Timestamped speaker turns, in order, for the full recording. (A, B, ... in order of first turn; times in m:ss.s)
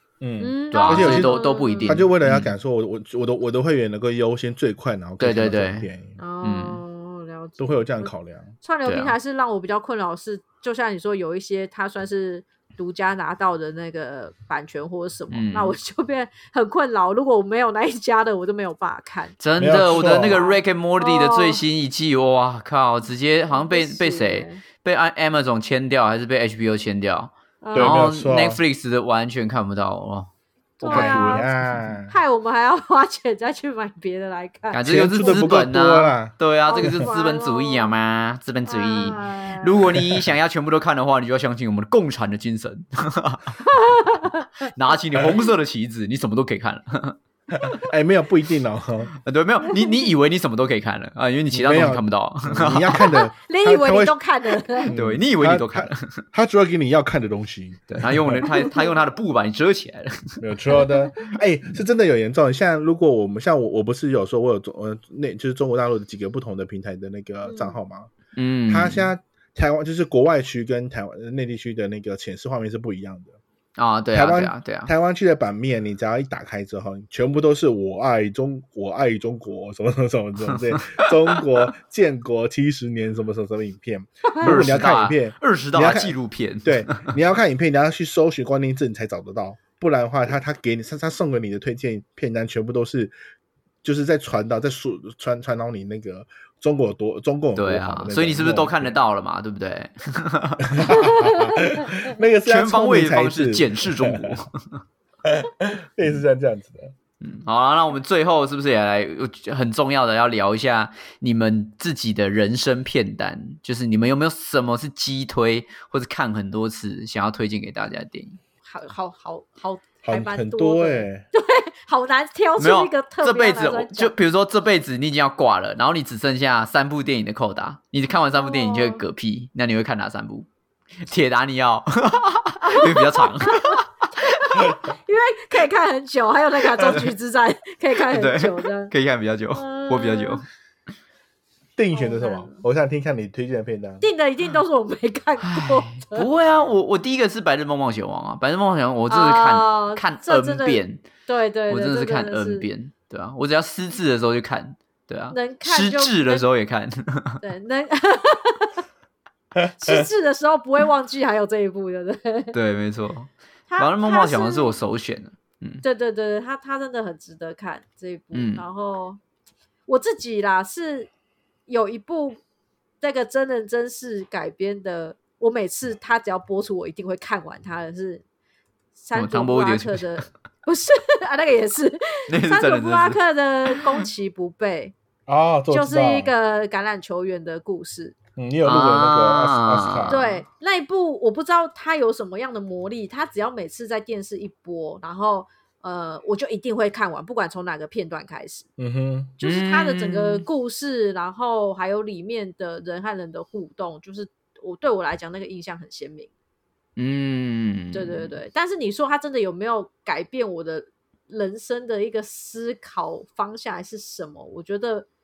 0:00.2-0:06.2 A
0:00.4-0:02.0 B
0:00.7-0:02.5 C
0:05.2-0:05.9 C
0:06.2-0:08.1 B
0:06.4-0:06.8 C
0:07.6-0:08.5 A
0:08.6-0:19.4 B
0:08.8-0:09.1 C
0:15.3-0:15.7 C
0:19.4-0:31.9 C
0:19.6-0:20.4 A
0:20.1-0:21.6 B
0:23.5-0:24.6 B
0:27.6-0:28.0 B
0:27.7-0:28.6 A
0:30.8-0:31.5 B
0:30.8-0:32.1 A
0:32.1-0:35.5 B
0:34.7-0:43.6 C
0:34.8-0:37.1 A
0:36.7-0:37.9 B
0:38.7-0:39.8 B
0:39.9-0:40.3 A
0:43.6-0:44.6 B
0:44.6-0:47.2 C
0:47.5-0:49.1 A
0:49.2-0:53.1 C
0:51.5-0:54.2 A
0:53.0-0:54.9 B
0:54.8-0:58.5 A
0:54.9-0:56.2 C
0:57.9-1:00.4 C
0:58.5-0:58.8 B
1:00.4-1:08.1 A
1:07.4-1:07.8 B
1:08.4-1:09.1 C
1:08.7-1:13.4 A
1:13.8-1:14.9 C
1:14.1-1:33.1 A
1:20.5-1:21.1 C
1:24.4-1:27.1 C
1:33.8-1:38.9 A
1:37.6-1:41.0 C
1:40.6-1:44.4 A
1:40.9-1:41.6 B
1:42.4-1:44.8 C
1:45.2-1:46.9 A
1:47.2-1:58.4 C
1:58.6-2:04.1 B
2:00.0-2:01.2 A
2:02.6-2:10.5 C
2:08.3-2:09.0 B
2:11.0-2:13.9 C
2:12.6-2:18.9 B
2:18.0-2:20.4 C
2:19.5-2:20.4 B
2:21.8-2:24.0 A
2:21.9-2:22.6 B
2:24.0-2:26.3 B
2:25.4-2:31.0 C
2:29.1-2:32.6 B
2:31.7-2:37.4 C
2:35.3-2:36.4 B
2:37.4-2:38.8 B
2:39.6-2:40.0 A
2:39.7-2:42.5 B
2:42.5-2:45.8 C
2:43.7-2:44.7 B
2:45.8-2:49.2 B
2:48.3-2:48.6 C
2:49.9-2:51.1 B
2:51.7-2:52.4 B
2:53.0-2:58.2 B
2:59.0-3:04.9 B
2:59.1-3:00.2 C
3:02.3-3:03.9 C
3:05.3-3:06.3 A
3:05.7-3:08.2 B
3:08.4-3:10.2 A
3:08.6-3:10.4 C
3:10.1-3:18.7 B
3:18.8-3:19.4 A
3:19.4-3:26.3 B
3:19.4-3:20.4 C
3:27.0-3:28.3 C
3:27.9-3:35.1 B